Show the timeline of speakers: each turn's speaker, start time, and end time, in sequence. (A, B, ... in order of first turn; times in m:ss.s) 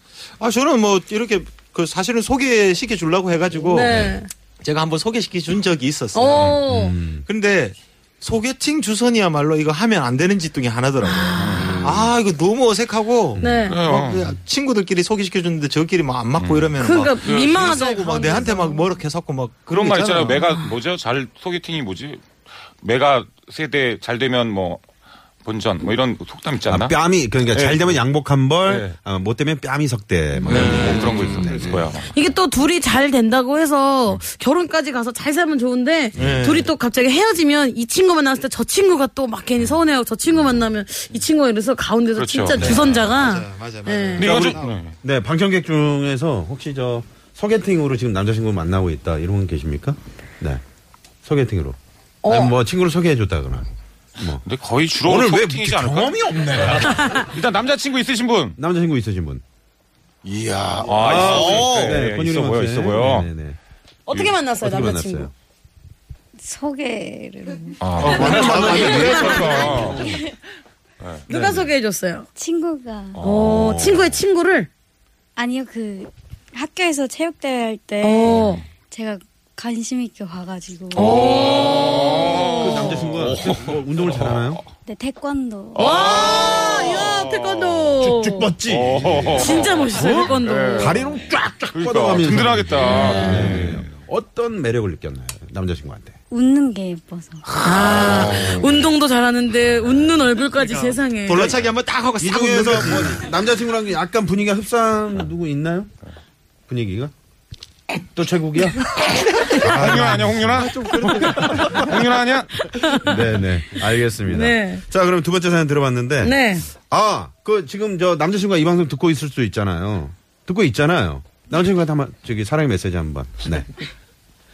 0:00.4-0:06.6 A
0:03.7-0:04.3 B
0:06.1-0:07.0 B
0:06.7-0:07.2 C
0:07.3-0:20.6 A
0:11.4-0:12.0 D
0:11.6-0:12.1 E
0:13.4-0:13.8 B
0:13.7-0:14.3 D
0:16.4-0:17.7 D
0:16.8-0:18.9 B
0:19.7-0:22.2 D
0:22.8-0:24.8 D
0:25.4-0:27.0 D
0:26.7-0:31.9 C
0:27.5-0:28.0 D
0:28.7-0:29.0 D
0:30.5-0:32.1 D
0:30.5-0:31.1 A
0:32.1-0:44.3 B
0:36.2-0:36.7 A
0:42.2-0:42.9 D
0:42.6-0:44.8 A
0:44.2-0:45.0 D
0:44.2-0:50.6 C
0:51.2-0:53.7 C
0:52.2-0:52.6 B
0:54.2-0:54.4 C
0:54.4-0:58.6 D
0:55.0-0:57.2 C
0:58.6-0:59.4 C
1:00.2-1:02.0 E
1:00.8-1:03.3 D
1:01.0-1:03.6 C
1:04.1-1:05.3 B
1:04.1-1:05.3 C
1:06.4-1:07.8 F
1:07.8-1:10.1 D
1:08.0-1:10.0 A
1:08.1-1:09.7 C
1:08.3-1:09.4 B
1:11.0-1:11.3 D
1:11.3-1:12.3 B
1:12.4-1:13.2 F
1:13.2-1:13.8 D
1:13.2-1:14.7 B
1:13.3-1:14.2 C
1:15.4-1:21.7 F
1:18.0-1:18.6 B
1:18.3-1:18.6 D
1:21.0-1:23.0 B
1:21.0-1:24.4 D
1:22.6-1:24.6 C
1:24.9-1:26.1 F
1:25.8-1:28.5 B
1:25.8-1:27.7 D
1:28.0-1:36.2 C
1:28.7-1:31.0 D
1:29.4-1:31.0 B
1:31.7-1:33.9 D
1:32.8-1:33.6 B
1:36.3-1:37.4 F
1:37.5-1:38.8 D
1:37.6-1:41.6 B
1:40.5-1:43.3 A
1:42.2-1:45.9 C
1:46.7-1:47.1 C
1:48.1-1:51.8 C
1:49.5-1:52.6 D
1:50.5-1:51.8 A
1:53.0-2:03.7 C
1:54.3-1:54.8 B
1:56.2-1:56.7 B